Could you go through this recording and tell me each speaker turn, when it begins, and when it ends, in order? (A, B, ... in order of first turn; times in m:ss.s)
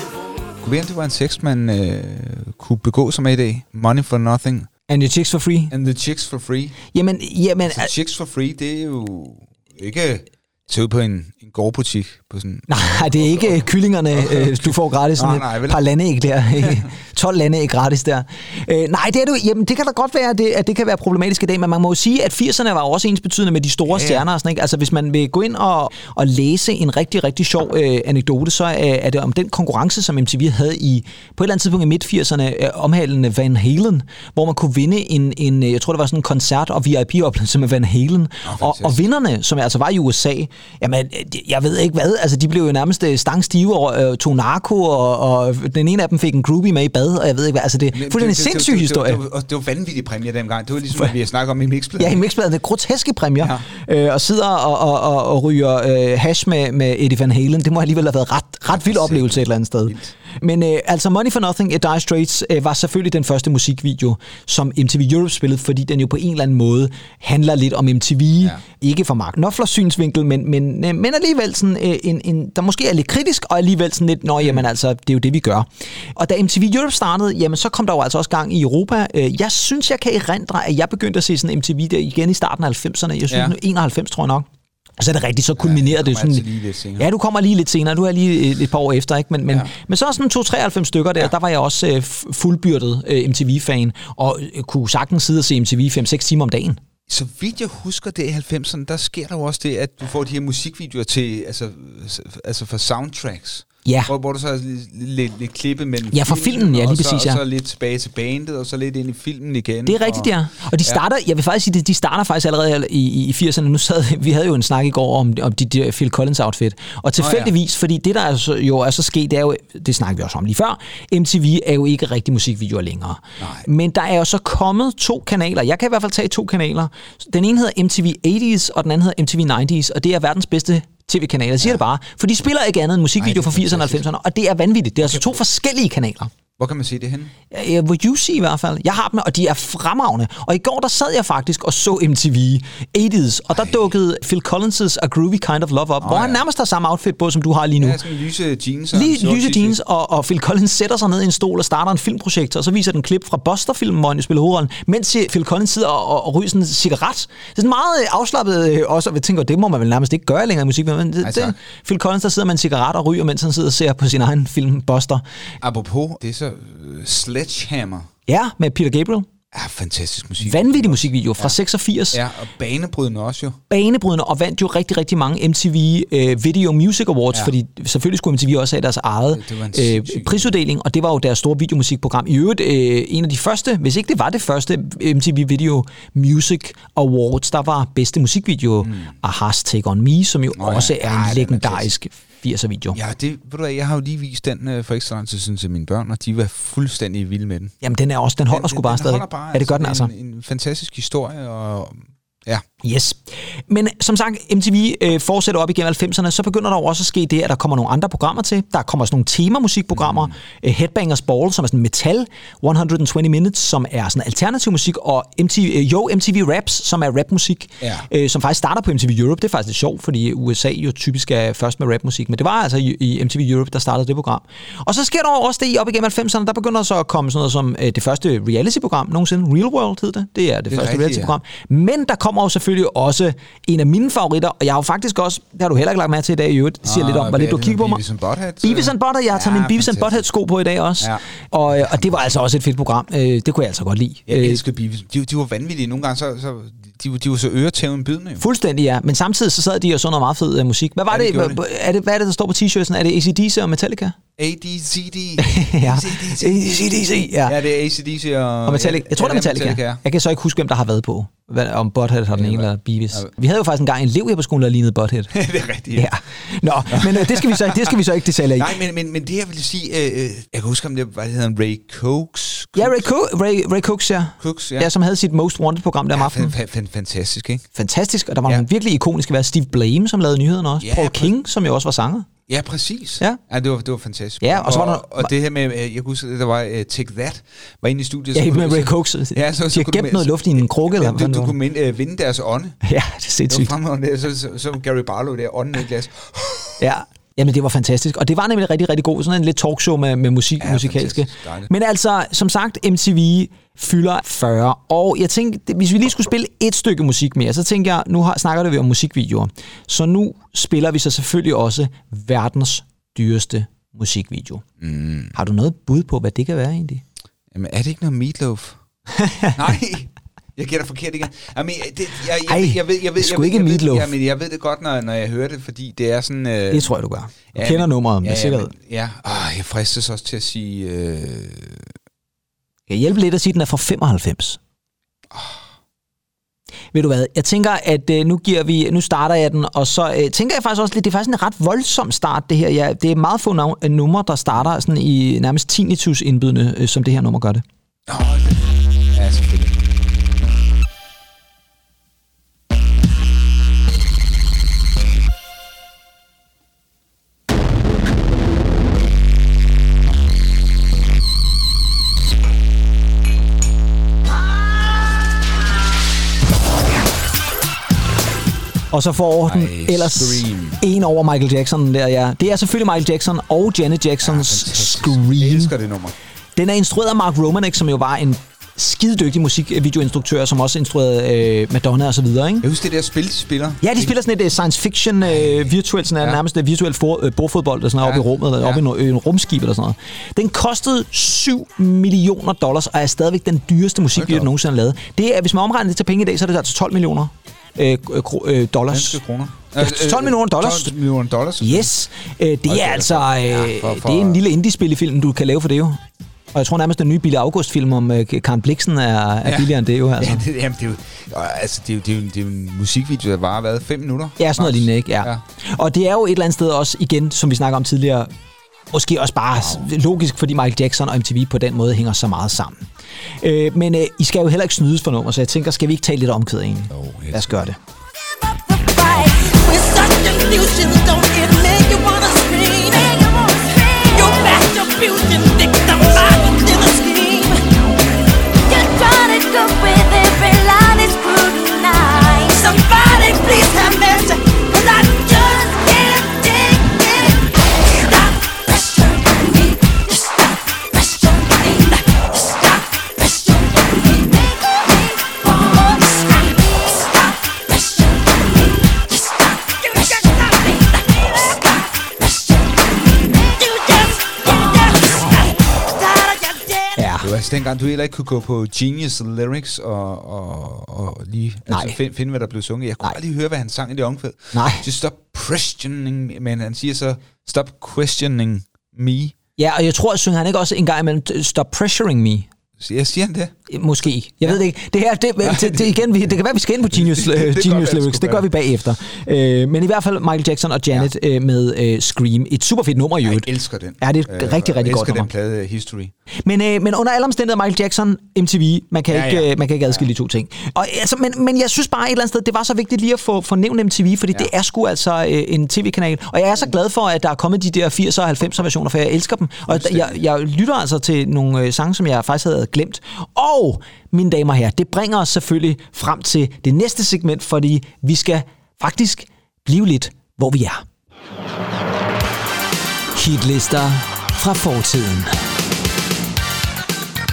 0:00.6-0:04.7 A
0:04.9-0:05.7 B
0:05.7-0:06.8 A
0:06.9-0:07.9 B
0:07.6-0:15.8 A
0:12.7-0:49.2 B
0:16.6-0:16.8 A
0:23.8-0:24.2 A
0:38.4-0:39.0 A
0:47.9-0:52.2 A
0:52.0-1:24.5 B
0:53.4-0:53.6 A
0:58.7-1:00.1 A
1:14.4-1:14.7 A
1:23.3-1:23.6 A
1:25.0-1:26.4 B
1:25.6-1:27.1 A
1:27.0-1:36.8 B
1:37.1-1:50.3 A
1:43.8-1:44.1 B
1:46.1-1:47.4 B
1:49.8-2:16.3 B
1:57.2-1:57.5 A
2:03.4-2:03.7 A
2:13.2-2:14.0 A
2:15.0-2:15.4 A
2:16.6-2:17.3 A
2:17.5-2:28.0 B
2:26.0-2:26.4 A
2:27.8-2:29.8 A
2:28.9-2:45.2 B
2:41.2-2:41.5 A
2:45.6-2:48.1 A
2:48.3-2:49.3 B
2:49.5-2:51.6 A
2:50.4-2:52.2 B
2:52.1-2:53.6 A
2:53.7-3:13.0 B
2:59.3-3:00.6 A
3:08.8-3:09.1 A
3:10.5-3:11.9 A
3:12.9-3:17.7 A
3:17.8-3:20.1 B
3:18.5-3:22.6 A
3:22.8-3:58.0 B
3:29.9-3:30.3 A
3:37.8-3:38.1 A
3:50.7-3:51.4 A
3:56.8-4:00.3 A
3:58.6-4:04.6 B
4:01.0-4:02.1 A
4:04.3-4:08.4 A
4:08.4-4:14.2 B
4:11.1-4:11.6 A
4:14.4-4:16.6 A
4:15.4-4:17.6 B
4:17.4-4:20.0 A
4:18.6-4:25.3 B
4:22.3-4:23.3 A
4:25.3-4:26.1 A
4:25.9-4:28.7 B
4:26.9-4:33.1 A
4:32.8-4:36.5 B
4:34.4-4:34.9 A
4:36.1-4:37.6 A
4:37.7-4:42.3 B
4:40.8-4:41.3 A
4:42.5-4:52.8 A
4:44.4-4:45.3 B
4:48.3-4:51.6 B
4:52.8-4:53.7 B
4:53.5-4:56.8 A
4:56.8-5:14.6 B
5:00.6-5:01.7 A
5:14.8-5:15.3 A
5:15.3-5:17.0 B
5:17.5-5:18.8 A
5:19.1-5:19.6 B
5:19.5-5:26.9 A
5:22.5-5:24.1 B
5:26.7-5:28.7 B
5:27.5-5:31.9 A
5:32.9-5:34.6 B
5:35.3-5:35.6 A
5:36.9-5:47.6 B
5:48.1-5:49.8 A
6:08.9-6:15.7 B
6:09.4-6:10.8 A
6:14.2-6:16.1 A
6:16.6-6:22.6 B
6:22.6-6:24.1 A
6:23.8-6:39.2 B
6:25.2-6:25.7 A
6:28.0-6:28.8 A
6:34.1-6:34.5 A
6:38.9-6:41.9 A
6:39.8-6:40.9 B
6:41.6-6:46.0 B
6:42.7-6:44.4 A
6:46.5-6:50.4 B
6:49.4-6:55.4 A
6:54.4-6:58.3 B
6:58.9-7:02.9 B
7:03.4-7:07.8 B
7:06.9-7:07.7 A
7:08.7-7:17.6 C
7:18.7-7:47.0 C
7:47.0-7:47.3 B
7:47.2-7:59.3 A
7:51.7-7:52.0 B
7:54.5-7:54.8 B
7:59.6-8:02.5 B
8:02.8-8:03.5 A
8:03.7-8:13.5 B
8:05.4-8:06.0 A
8:06.9-8:08.5 A
8:13.2-8:16.1 A
8:14.0-8:15.3 B
8:16.4-8:40.8 B
8:19.1-8:20.0 A
8:29.7-8:30.2 A
8:43.1-8:45.4 B